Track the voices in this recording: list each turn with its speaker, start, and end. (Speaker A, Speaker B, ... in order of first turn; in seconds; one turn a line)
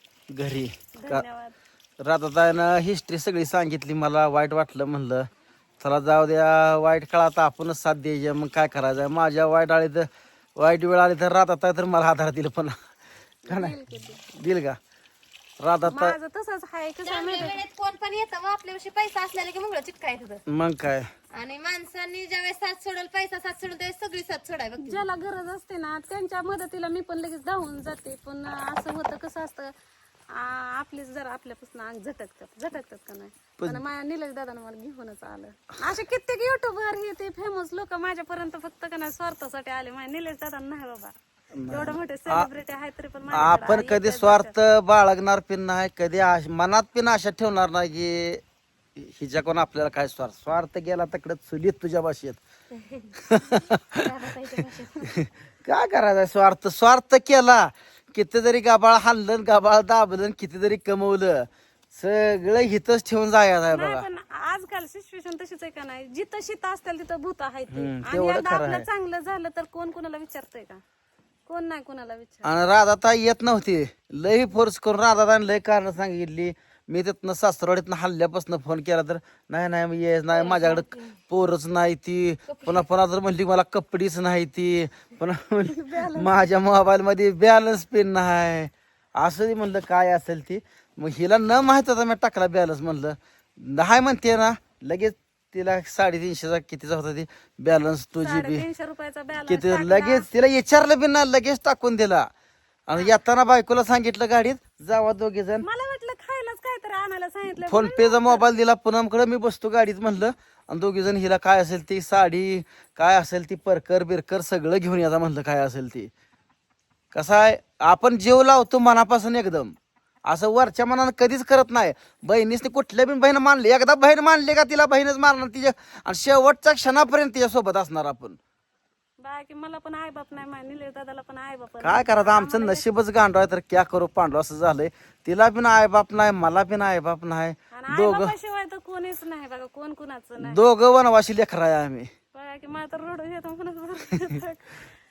Speaker A: 0.3-1.2
Speaker B: 1.0-1.6
Speaker A: 2.0-5.3
Speaker A: 5.8-12.8
Speaker B: 13.5-14.2
Speaker A: 13.5-13.8
Speaker A: 14.3-14.8
Speaker A: 15.6-16.1
Speaker B: 15.9-17.6
Speaker C: 17.0-20.4
Speaker A: 20.5-21.1
Speaker C: 21.3-25.1
Speaker B: 24.8-29.7
Speaker B: 30.3-41.1
Speaker A: 41.5-42.5
Speaker B: 41.7-44.5
Speaker A: 43.3-48.4
Speaker A: 49.0-52.4
Speaker C: 52.8-53.1
Speaker A: 53.2-54.0
Speaker C: 54.0-55.1
Speaker A: 55.0-64.1
Speaker B: 63.7-70.8
Speaker A: 67.7-68.9
Speaker B: 71.5-72.5
Speaker A: 72.4-98.6
Speaker C: 80.3-81.2
Speaker C: 82.5-82.9
Speaker B: 85.7-86.3
Speaker B: 98.2-100.3
Speaker A: 99.5-102.3
Speaker A: 102.9-105.7
Speaker B: 105.6-108.5
Speaker A: 107.6-116.1
Speaker A: 117.1-119.8
Speaker A: 120.3-128.4
Speaker B: 129.2-132.8
Speaker A: 131.8-138.3
Speaker B: 137.7-140.6
Speaker A: 140.4-142.1
Speaker B: 142.3-144.8